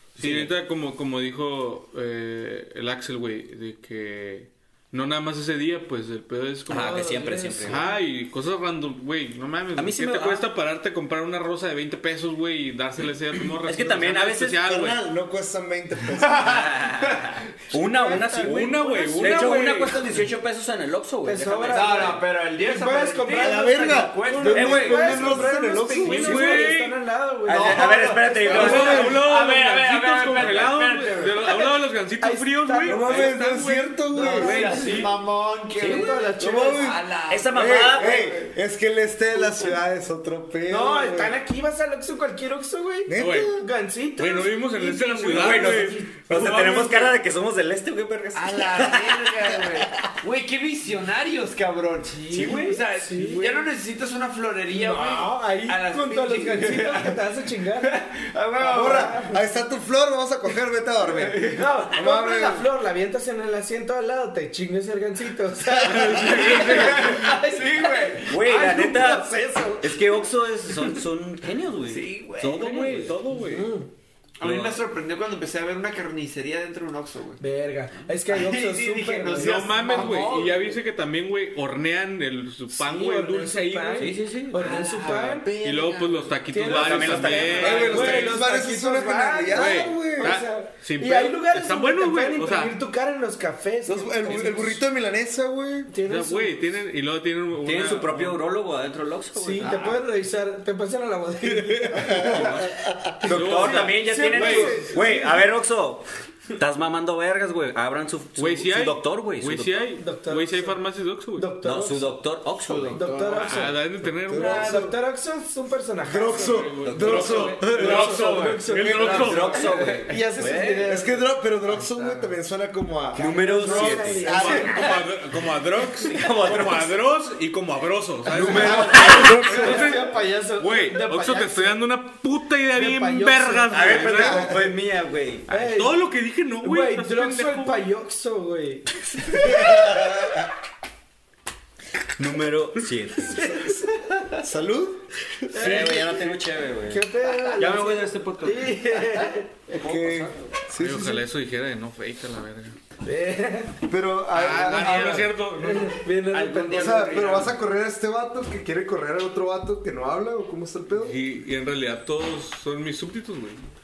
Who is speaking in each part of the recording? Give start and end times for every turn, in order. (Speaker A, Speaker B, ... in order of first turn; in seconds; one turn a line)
Speaker A: 0.2-0.5
Speaker B: 0.2-15.0
Speaker A: 6.7-7.9
Speaker C: 6.7-8.0
Speaker A: 9.8-10.5
Speaker A: 13.6-14.6
Speaker D: 14.6-16.7
Speaker E: 16.1-17.4
Speaker A: 16.4-22.2
Speaker C: 17.7-19.6
Speaker B: 18.4-20.2
Speaker C: 21.2-29.2
Speaker E: 21.7-25.3
Speaker D: 23.3-26.7
Speaker A: 24.6-25.4
Speaker B: 26.0-27.0
Speaker A: 27.4-29.2
Speaker E: 27.5-31.6
Speaker D: 28.5-29.1
Speaker B: 28.5-34.7
Speaker C: 31.4-33.3
Speaker D: 32.8-34.6
Speaker C: 34.1-35.1
Speaker E: 34.2-38.5
Speaker A: 34.4-35.1
Speaker C: 35.8-36.9
Speaker A: 35.9-36.1
Speaker D: 36.4-41.4
Speaker A: 37.3-38.4
Speaker C: 40.7-46.6
Speaker D: 43.1-43.6
Speaker B: 43.2-43.5
Speaker B: 44.1-47.1
Speaker A: 45.3-49.6
Speaker E: 46.3-47.0
Speaker E: 48.3-59.1
Speaker C: 52.1-53.6
Speaker A: 52.3-52.8
Speaker C: 54.7-58.0
Speaker C: 58.6-59.4
Speaker D: 58.6-62.7
Speaker E: 61.0-61.7
Speaker C: 61.5-70.3
Speaker B: 65.7-67.3
Speaker E: 66.1-68.7
Speaker A: 68.3-73.6
Speaker E: 71.8-73.0
Speaker B: 72.5-73.6
Speaker C: 73.3-73.9
Speaker E: 74.4-77.4
Speaker C: 77.4-80.5
Speaker E: 78.3-80.7
Speaker B: 79.3-84.4
Speaker C: 82.7-85.5
Speaker A: 84.0-84.7
Speaker E: 84.4-86.5
Speaker B: 85.6-88.4
Speaker C: 86.5-94.8
Speaker A: 86.6-88.1
Speaker E: 87.0-88.1
Speaker D: 87.6-90.4
Speaker B: 89.5-92.8
Speaker D: 93.8-95.9
Speaker C: 95.9-96.7
Speaker B: 96.0-98.5
Speaker A: 97.6-100.0
Speaker C: 99.3-102.6
Speaker D: 101.5-103.6
Speaker A: 102.1-102.7
Speaker C: 103.2-105.4
Speaker A: 103.2-109.8
Speaker B: 103.3-104.8
Speaker D: 104.1-105.4
Speaker B: 108.4-111.6
Speaker C: 110.0-110.8
Speaker C: 111.3-112.2
Speaker A: 111.6-113.1
Speaker E: 112.6-113.7
Speaker C: 112.9-121.3
Speaker B: 113.4-114.8
Speaker D: 114.2-115.0
Speaker D: 116.1-118.2
Speaker B: 116.3-119.8
Speaker A: 116.8-117.3
Speaker E: 117.7-120.2
Speaker A: 119.0-120.9
Speaker D: 120.8-124.9
Speaker E: 121.6-122.4
Speaker A: 123.1-124.9
Speaker C: 123.2-125.0
Speaker B: 124.3-134.7
Speaker A: 126.0-127.0
Speaker D: 128.3-129.9
Speaker A: 128.4-129.2
Speaker C: 128.4-131.8
Speaker C: 132.7-134.3
Speaker A: 133.7-135.5
Speaker D: 134.1-134.6
Speaker C: 135.5-136.0
Speaker B: 135.5-137.8
Speaker C: 136.6-140.3
Speaker D: 139.3-140.5
Speaker A: 142.2-143.6
Speaker C: 143.2-144.4
Speaker D: 144.4-145.1
Speaker C: 145.4-146.3
Speaker A: 145.5-150.5
Speaker B: 145.6-145.9
Speaker C: 146.8-149.7
Speaker D: 149.8-151.2
Speaker B: 150.7-152.8
Speaker C: 153.0-153.8
Speaker D: 153.9-155.3
Speaker B: 154.3-157.5
Speaker C: 154.4-157.5
Speaker D: 156.7-161.2
Speaker B: 160.9-163.7